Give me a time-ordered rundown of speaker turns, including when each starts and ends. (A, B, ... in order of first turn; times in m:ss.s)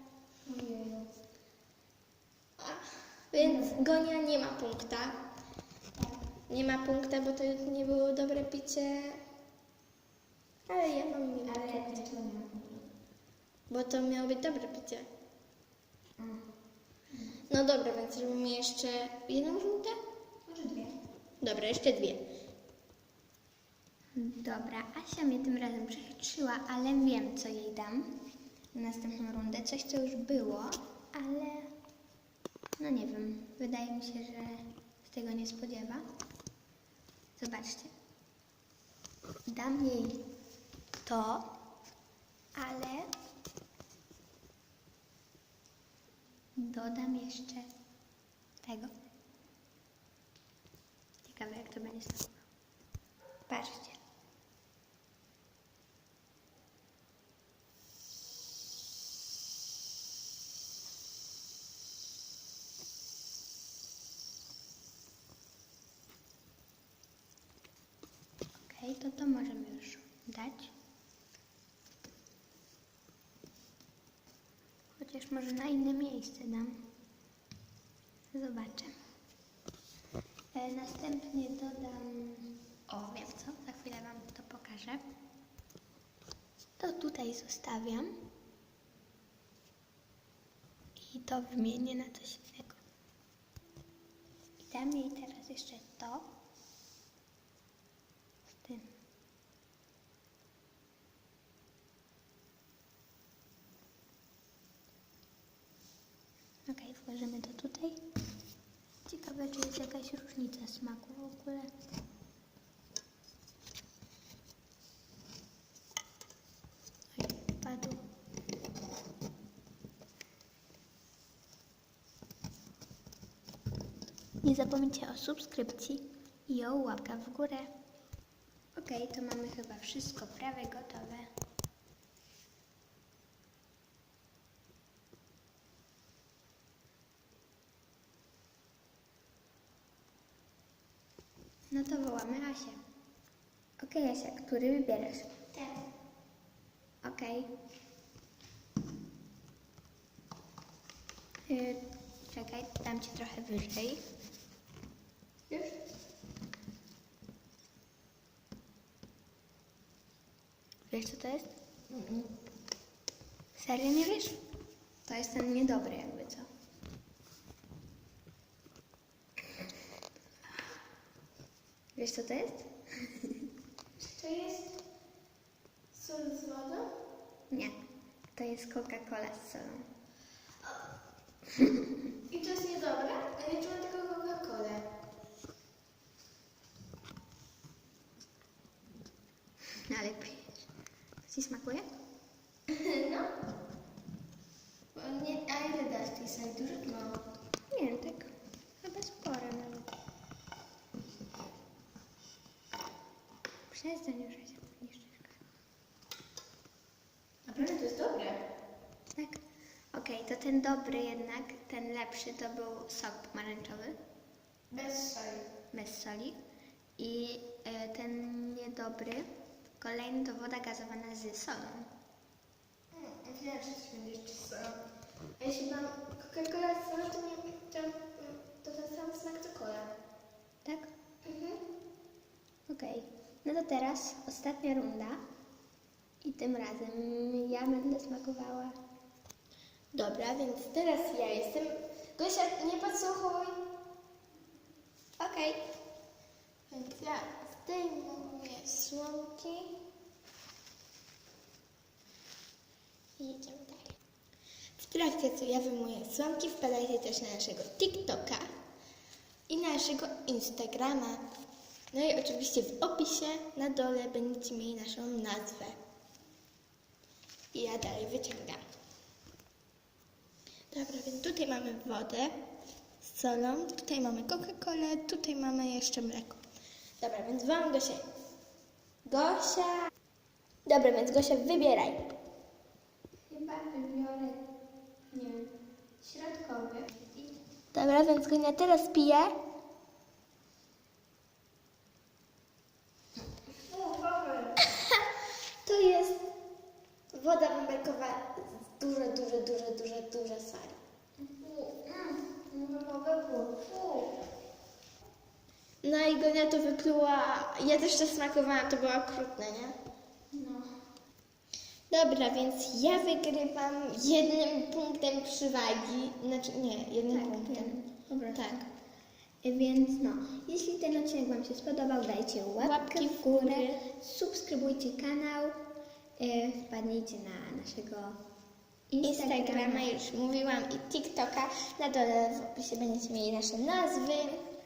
0:00.4-0:01.1 A
0:02.6-0:05.2 B
0:03.4-0:03.8 A
0:06.0-0:06.2 A
0:06.5-0:09.2 B
0:10.7-0:12.0 B
0:11.4-0:12.9 A
0:13.7-0:15.1 B
0:16.2-0:16.4 A
0:17.1-0:17.4 A
0:17.5-0:20.0 B
0:20.4-0:20.9 A
0:21.4-0:22.2 B
0:24.1-0:28.1 A
0:28.7-0:31.7 A
0:32.8-0:36.0 A
0:37.4-0:37.9 A
0:39.5-0:40.2 A
0:41.0-0:41.5 A
0:42.5-0:43.1 A
0:46.6-0:47.7 A
0:48.6-0:48.9 A
0:51.2-0:52.4 A
0:53.5-0:54.0 A
1:08.6-1:10.7 A
1:15.0-1:16.8 A
1:18.3-1:18.9 A
1:20.5-1:25.0 A
1:26.8-1:28.2 A
1:31.0-1:32.8 A
1:34.6-1:36.3 A
1:38.5-1:38.9 A
1:46.7-1:48.0 A
1:49.0-1:51.7 A
1:57.1-1:58.0 A
2:04.4-2:07.7 A
2:08.8-2:11.3 A
2:21.7-2:22.8 A
2:23.8-2:25.3 A
2:25.5-2:25.8 B
2:27.0-2:27.5 A
2:31.5-2:34.0 A
2:40.9-2:41.5 A
2:41.9-2:42.3 B
2:43.6-2:44.4 A
2:45.0-2:46.5 A
2:52.0-2:53.4 A
2:54.0-2:54.8 B
2:55.9-2:56.9 B
2:58.3-2:59.9 A
3:01.5-3:02.0 A
3:02.3-3:04.9 B
3:09.8-3:10.7 A
3:11.2-3:11.8 A
3:12.7-3:13.3 B
3:14.9-3:17.2 B
3:17.7-3:19.9 A
3:23.7-3:25.4 A
3:27.4-3:28.4 B
3:29.1-3:29.4 A
3:29.9-3:34.0 A
3:34.7-3:35.5 B
3:35.7-3:36.4 A
3:37.0-3:39.3 A
3:39.8-3:41.9 A
3:42.9-3:44.8 B
3:45.4-3:49.9 B
3:50.6-3:50.9 A
3:51.2-3:51.6 B
3:52.7-3:55.2 A
3:56.2-3:58.8 A
3:59.9-4:03.6 B
4:05.2-4:05.6 A
4:06.7-4:09.8 B
4:13.2-4:14.0 B
4:14.8-4:18.4 B
4:19.5-4:21.2 B
4:21.9-4:25.8 B
4:27.5-4:28.6 B
4:30.7-4:32.4 B
4:33.0-4:36.4 B
4:37.0-4:38.0 B
4:39.0-4:39.9 B
4:40.6-4:42.1 B
4:43.3-4:44.4 A
4:45.1-4:47.4 A
4:47.7-4:49.3 B
4:53.7-4:54.6 B
4:55.6-4:56.3 B
4:57.1-5:00.8 B
5:01.2-5:04.2 A
5:05.8-5:09.7 B
5:10.3-5:10.7 A
5:11.9-5:17.8 B
5:17.1-5:18.7 A
5:18.3-5:18.6 B
5:19.4-5:25.6 A
5:22.6-5:23.8 B
5:26.2-5:28.2 A
5:28.9-5:29.9 A
5:29.0-5:34.5 B